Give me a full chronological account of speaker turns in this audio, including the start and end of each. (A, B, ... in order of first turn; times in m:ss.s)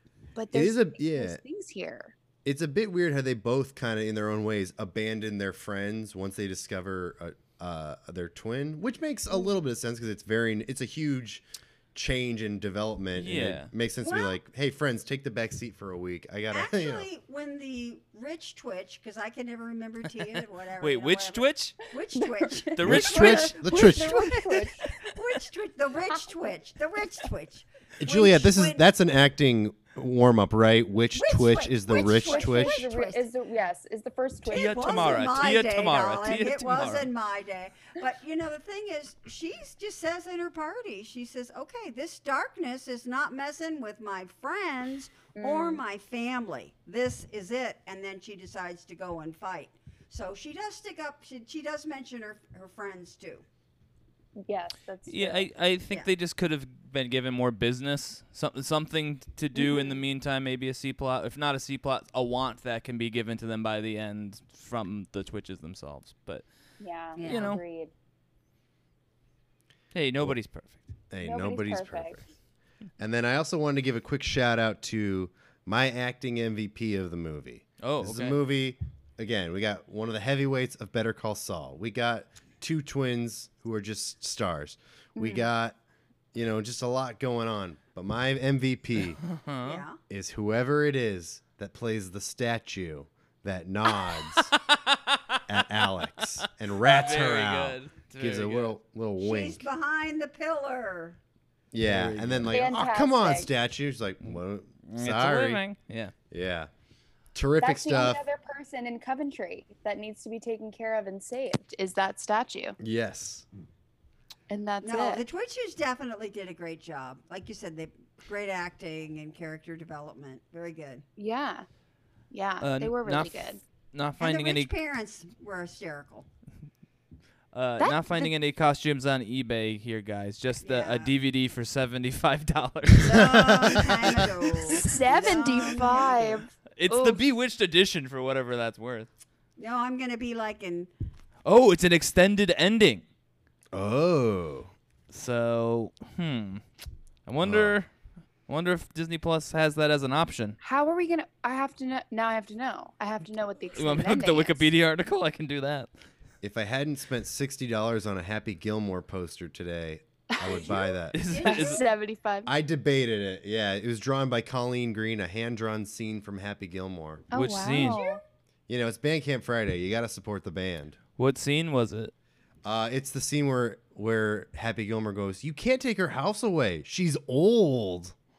0:00.4-0:02.1 A
0:00.5-0:01.4 B
0:02.4-0:17.1 B
0:13.2-0:13.7 C
0:14.0-0:14.4 D
0:16.5-0:28.8 D
0:20.8-0:21.8 C
0:22.1-0:24.9 A
0:22.8-0:23.5 C
0:22.8-0:24.3 B
0:28.0-0:32.9 B
0:31.1-0:33.2 D
0:31.9-0:35.5 A
0:34.4-0:53.4 D
0:34.5-0:37.1 C
0:45.3-0:45.8 A
0:54.4-0:55.5 A
0:55.1-1:06.4 C
0:59.5-1:00.0 A
1:06.8-1:07.9 A
1:07.2-1:07.5 D
1:07.2-1:07.6 C
1:09.9-1:10.9 C
1:11.1-1:12.3 B
1:11.2-1:12.2 A
1:13.0-1:25.8 B
1:17.8-1:18.4 C
1:25.2-1:25.5 A
1:26.3-1:29.2 B
1:29.2-1:29.8 C
1:29.6-1:30.0 D
1:30.1-1:34.5 B
1:34.3-1:38.7 C
1:35.5-1:39.6 B
1:39.2-1:41.2 D
1:41.7-1:45.6 B
1:41.8-1:42.6 C
1:42.5-1:43.5 A
1:44.9-1:46.1 C
1:46.3-1:46.7 B
1:47.3-1:48.2 B
1:47.6-1:52.8 A
1:52.8-1:53.4 B
1:54.5-1:55.2 A
1:54.8-2:01.0 D
2:01.2-2:01.6 A
2:02.3-2:03.6 A
2:02.6-2:04.7 C
2:04.2-2:06.3 D
2:07.5-2:15.8 C
2:07.8-2:08.3 A
2:10.6-2:11.1 D
2:13.0-2:16.4 D
2:13.1-2:14.2 B
2:14.6-2:17.2 A
2:16.8-2:19.1 C
2:19.6-2:20.9 D
2:21.4-2:23.0 C
2:23.7-2:24.7 B
2:25.1-2:26.6 C
2:27.2-2:27.9 C
2:27.4-2:27.7 B
2:28.5-2:30.6 C
2:30.6-2:34.7 A
2:33.7-2:35.9 C
2:36.4-2:41.2 B
2:40.3-2:42.5 A
2:41.1-2:41.8 C
2:41.2-2:41.9 D
2:42.4-2:47.2 B
2:47.3-2:48.2 A
2:47.3-2:48.0 C
2:47.7-2:48.2 D
2:48.7-2:51.0 B
2:51.2-2:52.1 C
2:52.6-2:58.1 B